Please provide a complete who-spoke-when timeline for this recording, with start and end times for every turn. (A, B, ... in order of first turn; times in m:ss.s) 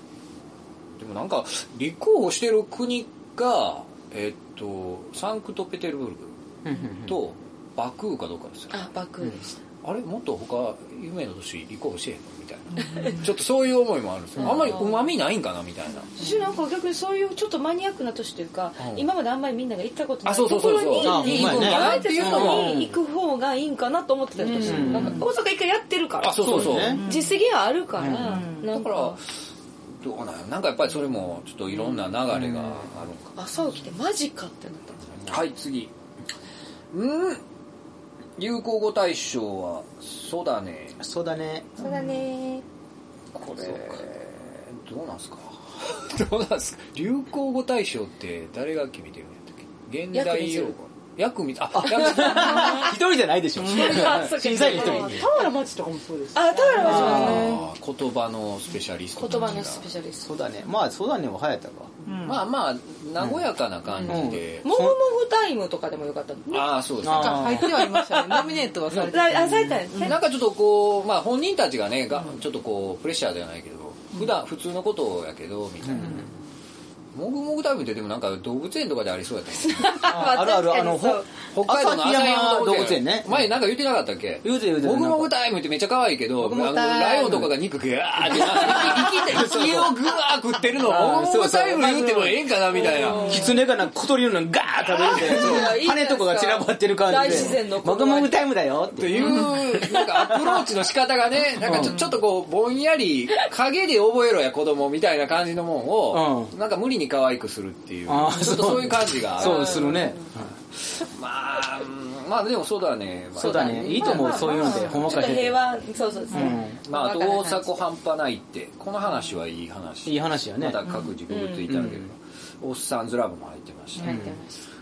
0:00.9-0:06.4 A
0:06.6-0:07.2 B
0:07.0-0:08.8 A
0:08.7-0:09.6 C
0:09.8-0:16.2 A
0:12.8-0:13.2 C
0:14.4-0:15.0 C
0:16.2-0:29.2 C
0:18.8-0:19.0 A
0:20.2-0:22.8 A
0:21.0-0:23.0 B
0:24.5-0:25.2 B
0:24.6-0:25.1 A
0:26.2-0:27.0 A
0:26.4-0:27.0 B
0:26.9-0:27.4 D
0:28.0-0:28.4 B
0:28.1-0:28.7 D
0:28.5-0:29.3 A
0:30.0-0:33.4 A
0:32.3-0:32.9 B
0:33.4-0:35.0 C
0:35.2-0:35.9 A
0:36.9-0:37.4 A
0:38.4-0:41.0 A
0:41.0-0:41.8 B
0:41.8-0:42.6 C
0:43.3-0:52.9 A
0:50.1-0:50.7 C
0:51.7-0:55.3 B
0:51.9-0:52.9 C
0:53.6-0:55.5 C
0:54.4-0:57.4 E
0:56.4-0:57.6 C
0:56.8-0:57.6 B
0:56.9-0:57.6 D
0:56.9-0:59.9 A
0:59.2-1:00.3 C
1:00.2-1:01.9 B
1:02.0-1:02.4 D
1:02.2-1:04.6 A
1:03.2-1:03.4 B
1:04.0-1:05.0 B
1:04.6-1:06.8 C
1:06.5-1:07.6 A
1:07.0-1:07.7 B
1:07.0-1:10.1 D
1:07.8-1:10.2 C
1:10.0-1:16.3 A
1:15.8-1:16.3 B
1:17.1-1:20.0 A
1:19.6-1:21.3 C
1:20.0-1:23.5 B
1:21.5-1:33.4 A
1:24.4-1:25.3 B
1:26.4-1:27.6 B
1:28.2-1:30.0 B
1:30.8-1:40.6 B
1:32.8-1:33.6 C
1:34.9-1:38.4 C
1:35.2-1:35.8 A
1:39.0-1:50.1 A
1:41.6-1:42.1 B
1:46.1-1:46.5 B
1:48.1-1:50.5 B
1:49.4-1:50.3 C
1:50.8-1:55.5 A
1:53.4-1:55.6 B
1:53.4-1:57.9 C
1:54.6-1:54.9 D
1:56.3-1:56.8 B
1:56.9-2:04.1 A
2:00.0-2:00.8 B
2:01.3-2:01.8 C
2:01.7-2:02.1 B
2:04.0-2:04.6 C
2:04.0-2:04.4 B